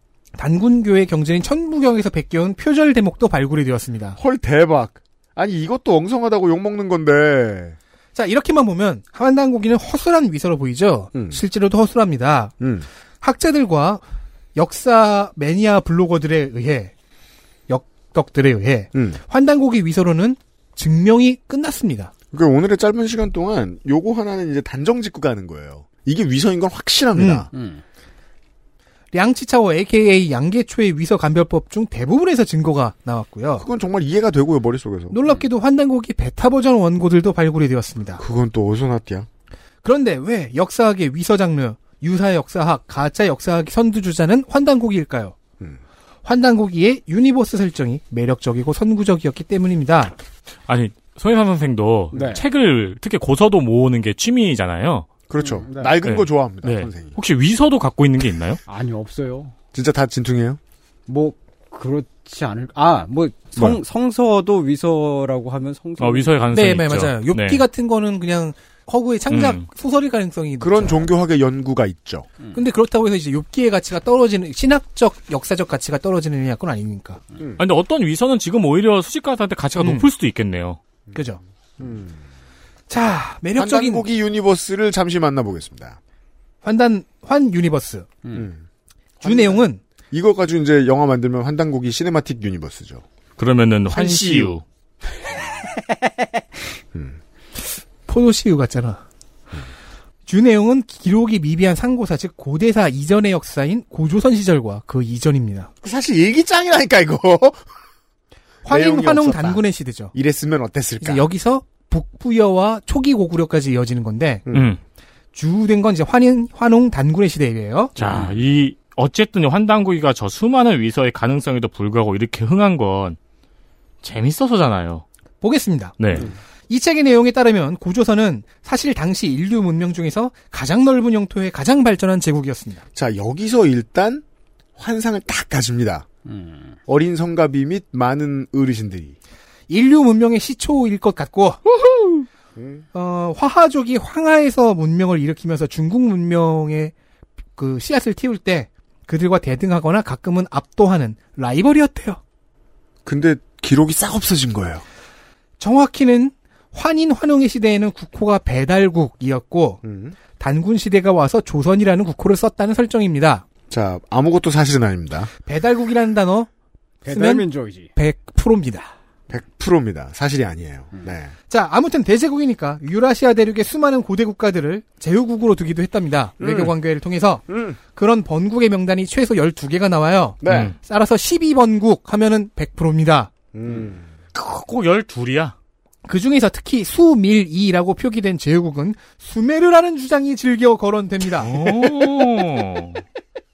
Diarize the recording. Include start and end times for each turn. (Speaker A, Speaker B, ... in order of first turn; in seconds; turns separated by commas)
Speaker A: 0.4-4.2, Speaker B: 4.2-7.8, Speaker A: 8.1-12.5, Speaker B: 11.1-11.4, Speaker B: 12.6-12.9, Speaker A: 13.2-14.0, Speaker A: 14.6-16.9, Speaker A: 17.7-22.1, Speaker B: 18.9-19.2, Speaker B: 22.3-27.5, Speaker A: 27.2-27.5, Speaker C: 27.5-27.8, Speaker A: 29.1-33.6, Speaker B: 33.6-35.2, Speaker A: 35.1-38.2, Speaker B: 38.2-39.3, Speaker A: 39.8-45.4, Speaker A: 46.2-50.1, Speaker D: 50.7-55.1, Speaker C: 52.1-52.4, Speaker B: 55.3-57.2, Speaker C: 55.4-55.9, Speaker D: 56.0-58.6, Speaker C: 58.7-59.5, Speaker B: 59.7-60.6, Speaker C: 61.1-66.4, Speaker B: 63.6-63.8, Speaker D: 66.0-67.6, Speaker A: 66.5-71.0, Speaker D: 69.3-69.6, Speaker B: 70.6-72.3, Speaker A: 72.5-77.2, Speaker D: 77.6-80.8, Speaker A: 79.8-80.1, Speaker A: 81.1-81.4, Speaker B: 81.8-82.2, Speaker A: 82.9-84.0, Speaker B: 83.6-86.0, Speaker A: 86.6-88.1, Speaker B: 88.3-88.6, Speaker A: 89.2-89.8, Speaker B: 89.2-93.0, Speaker D: 93.4-94.6, Speaker B: 93.9-94.6, Speaker B: 96.9-97.2, Speaker A: 98.1-99.0, Speaker A: 100.3-105.7, Speaker B: 105.8-107.6, Speaker A: 108.7-110.1, Speaker B: 108.7-109.6, Speaker B: 110.1-111.2, Speaker A: 111.0-114.5, Speaker D: 114.5-114.8, Speaker A: 115.3-117.9, Speaker D: 118.0-123.2, Speaker C: 118.0-118.3, Speaker D: 124.0-125.0, Speaker A: 125.4-126.0, Speaker D: 126.0-126.3, Speaker A: 126.7-132.8, Speaker B: 132.9-134.2, Speaker B: 134.8-136.1, Speaker C: 136.3-136.8, Speaker B: 136.9-139.2, Speaker A: 139.7-141.6, Speaker B: 142.6-142.8, Speaker A: 142.9-146.9, Speaker A: 147.6-152.2, Speaker B: 153.1-154.8, Speaker A: 155.6-163.4, Speaker B: 159.8-160.2, Speaker B: 163.7-165.3, Speaker A: 165.4-166.5, Speaker C: 167.1-167.9, Speaker A: 167.1-168.9, Speaker B: 169.3-171.3, Speaker A: 171.5-183.3, Speaker B: 176.4-176.7, Speaker B: 177.5-177.8, Speaker B: 180.4-180.7, Speaker D: 180.4-180.8, Speaker B: 183.5-184.1, Speaker D: 184.3-185.6, Speaker A: 186.1-191.6, Speaker D: 191.4-193.0